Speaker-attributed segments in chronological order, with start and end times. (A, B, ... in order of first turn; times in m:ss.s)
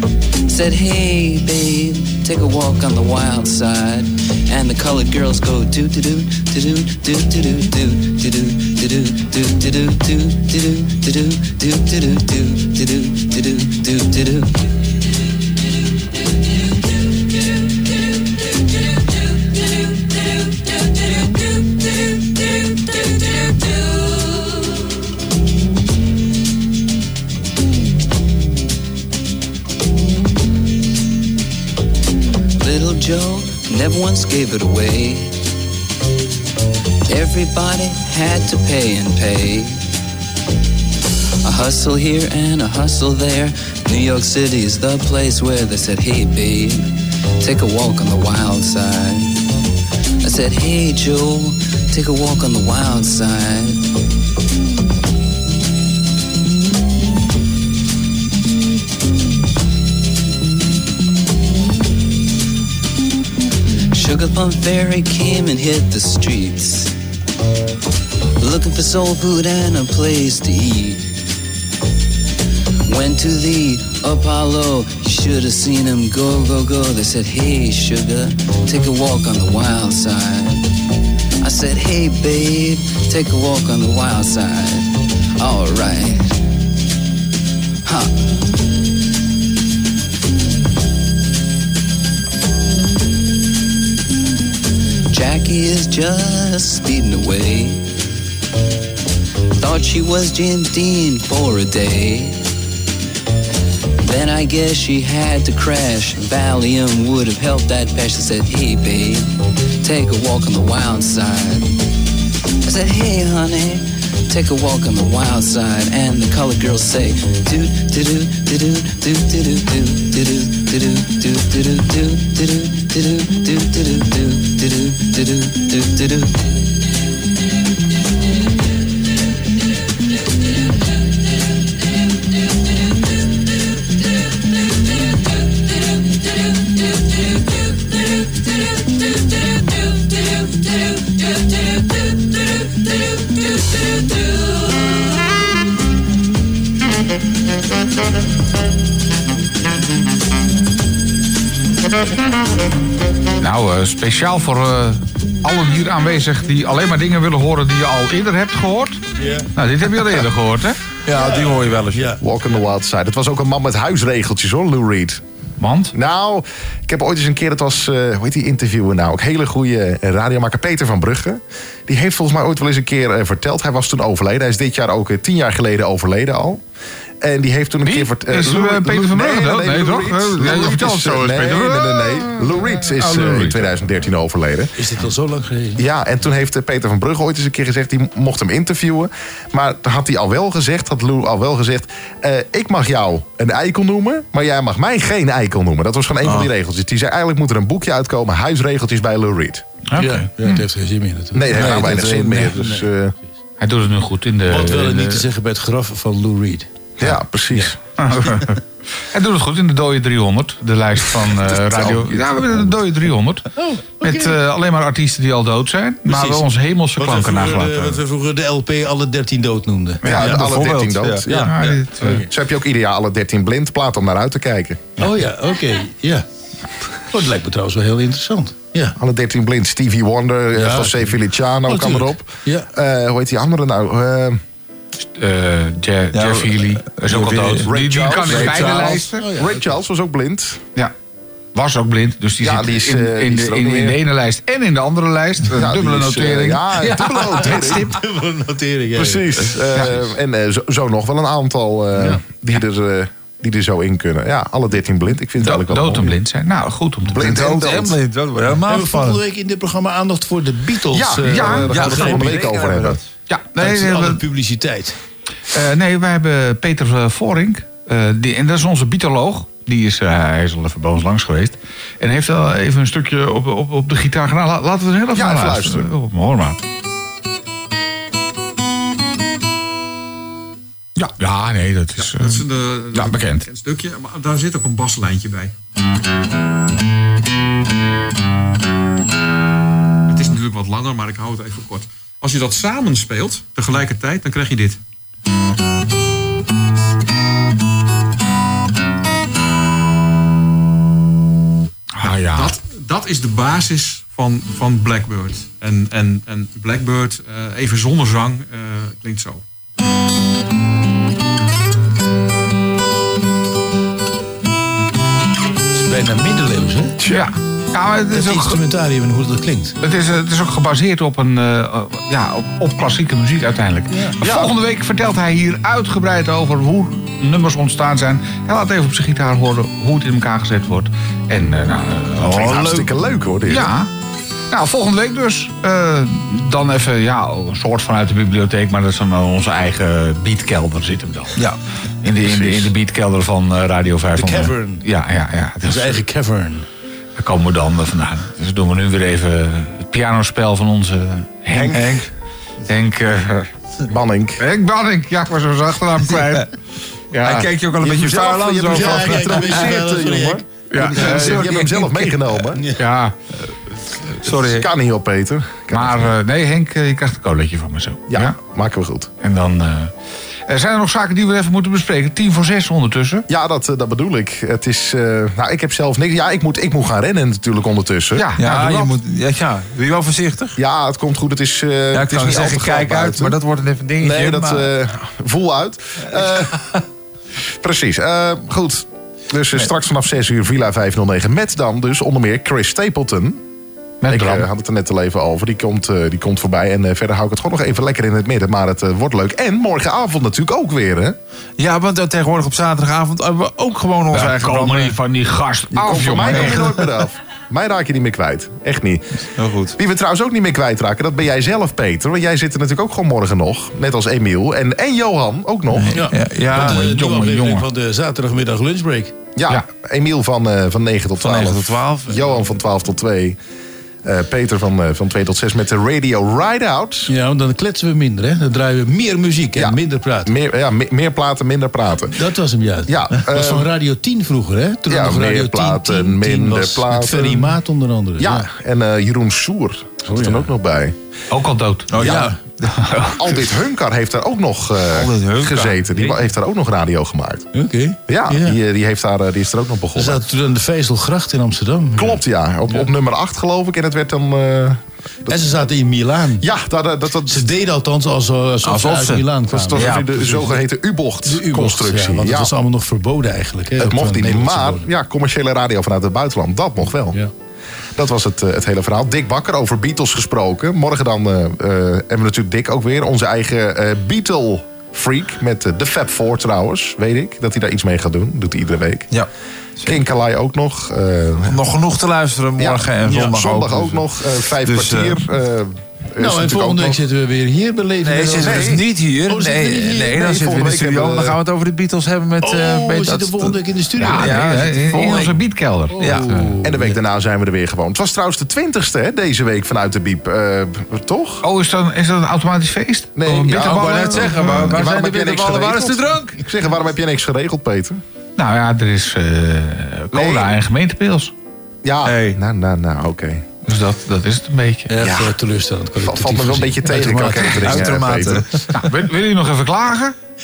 0:00.5-0:14.6 A
0:32.6-0:35.3 A
0:37.1-0:39.8 A
0:41.4-0:46.9 A
0:47.4-0:49.3 A
0:50.2-0:53.8 A
1:03.9-1:06.9 A
1:08.4-1:11.0 A
1:12.9-1:20.6 A
1:21.4-1:24.9 A
1:25.4-1:26.3 A
1:27.8-1:28.1 A
1:35.1-1:37.8 A
1:39.6-1:42.4 A
1:44.0-1:49.3 A
1:49.8-1:51.8 A
1:52.6-2:06.4 A
2:33.4-2:39.0 B
2:39.2-2:39.5 C
2:39.5-2:40.8 B
2:41.0-2:42.2 D
2:41.1-2:42.2 C
2:42.2-2:45.2 E
2:45.6-2:45.9 B
2:45.9-2:56.6 E
2:57.2-3:04.7 E
2:57.8-3:03.8 B
3:04.8-3:05.8 C
3:05.8-3:19.6 E
3:19.9-3:20.6 B
3:19.9-3:22.9 C
3:21.3-3:23.1 E
3:23.6-3:25.3 B
3:24.5-3:26.7 C
3:27.0-3:27.8 E
3:27.5-3:28.5 C
3:28.0-3:33.5 B
3:31.2-3:32.7 E
3:33.5-3:34.3 C
3:34.0-3:38.0 B
3:36.0-3:40.6 C
3:40.0-3:44.9 E
3:40.1-3:41.7 D
3:41.4-3:42.2 B
3:42.0-3:42.3 C
3:45.0-3:46.2 C
3:47.1-3:49.0 C
3:49.0-3:54.4 E
3:50.5-3:52.7 C
3:55.1-3:59.2 B
3:56.1-3:57.7 D
3:57.6-4:00.6 E
3:58.4-3:59.7 C
4:01.5-4:08.0 B
4:02.4-4:04.0 E
4:05.5-4:07.9 E
4:07.3-4:09.4 C
4:09.0-4:16.2 E
4:09.7-4:10.0 B
4:15.4-4:17.4 B
4:17.1-4:18.0 E
4:17.2-4:19.2 D
4:18.6-4:22.3 C
4:20.9-4:23.0 E
4:21.3-4:22.1 B
4:21.7-4:23.0 D
4:23.3-4:24.2 B
4:23.6-4:25.0 C
4:25.5-4:36.6 B
4:35.1-4:35.9 E
4:41.0-4:43.4 B
4:42.0-4:45.5 F
4:50.1-4:54.8 F
5:02.0-5:02.6 B
5:02.2-5:09.4 F
5:15.7-5:17.0 C
5:17.0-5:17.3 E
5:17.1-5:18.6 B
5:18.1-5:19.8 C
5:19.8-5:32.9 B
5:23.9-5:24.2 C
5:24.2-5:24.5 E
5:32.2-5:33.7 E
5:33.5-5:33.9 B
5:34.5-5:41.4 B
5:42.0-5:46.0 B
5:42.3-5:42.7 E
5:44.1-5:44.8 C
5:45.6-5:46.6 C
5:47.2-5:51.9 B
5:51.5-5:51.9 E
5:51.6-5:52.1 D
5:52.7-5:53.5 B
5:53.9-5:54.4 E
5:54.4-5:56.5 B
5:57.1-5:57.5 B
5:57.2-5:59.8 D
5:57.8-6:02.6 E
5:58.7-6:01.5 C
6:00.7-6:01.6 B
6:00.8-6:02.1 D
6:02.6-6:02.8 C
6:02.8-6:03.1 B
6:04.2-6:04.7 D
6:04.2-6:06.1 E
6:05.7-6:08.4 B
6:08.1-6:09.1 E
6:09.2-6:09.9 B
6:10.5-6:13.2 B
6:13.3-6:18.3 E
6:18.1-6:18.9 B
6:18.4-6:20.6 D
6:20.6-6:23.4 E
6:21.9-6:24.7 D
6:24.0-6:26.7 E
6:27.6-6:33.4 E
6:34.0-6:34.5 B
6:34.1-6:41.2 E
6:41.6-6:45.0 D
6:44.1-6:46.6 B
6:45.7-6:49.2 E
6:49.4-6:49.8 D
6:49.8-6:56.0 E
6:55.9-6:56.8 D
6:55.9-6:59.2 C
6:56.5-6:57.7 B
6:59.4-7:03.4 E
7:01.2-7:02.5 D
7:04.0-7:07.1 E
7:07.1-7:10.3 C
7:09.6-7:12.2 E
7:12.1-7:18.5 C
7:12.9-7:13.7 E
7:14.9-7:17.6 E
7:18.2-7:20.9 E
7:20.1-7:20.5 C
7:21.3-7:23.3 B
7:21.9-7:22.7 D
7:22.0-7:22.3 E
7:23.2-7:27.5 E
7:24.9-7:26.2 D
7:27.5-7:28.6 C
7:28.1-7:30.2 E
7:29.9-7:32.9 C
7:32.0-7:35.4 E
7:35.3-7:36.4 C
7:36.4-7:37.5 E
7:37.3-7:40.6 C
7:38.6-7:40.1 D
7:39.5-7:42.5 E
7:41.2-7:44.9 C
7:43.8-7:47.2 E
7:48.0-7:59.1 E
7:59.8-8:01.6 E
8:01.5-8:04.1 D
8:02.6-8:07.0 E
8:04.6-8:05.2 D
8:06.2-8:10.1 C
8:08.0-8:13.6 D
8:08.3-8:08.8 E
8:09.6-8:11.4 E
8:12.4-8:14.8 C
8:14.0-8:16.5 B
8:14.1-8:15.4 D
8:15.9-8:17.0 C
8:16.0-8:16.3 D
8:16.6-8:21.4 E
8:21.4-8:24.8 B
8:23.2-8:28.0 E
8:23.2-8:26.4 D
8:28.4-8:31.3 B
8:30.1-8:30.6 E
8:31.8-8:33.4 E
8:32.0-8:32.4 D
8:33.6-8:35.0 B
8:34.9-8:37.9 C
8:35.0-8:35.4 E
8:36.0-8:38.5 E
8:37.5-8:38.7 D
8:38.7-8:40.1 B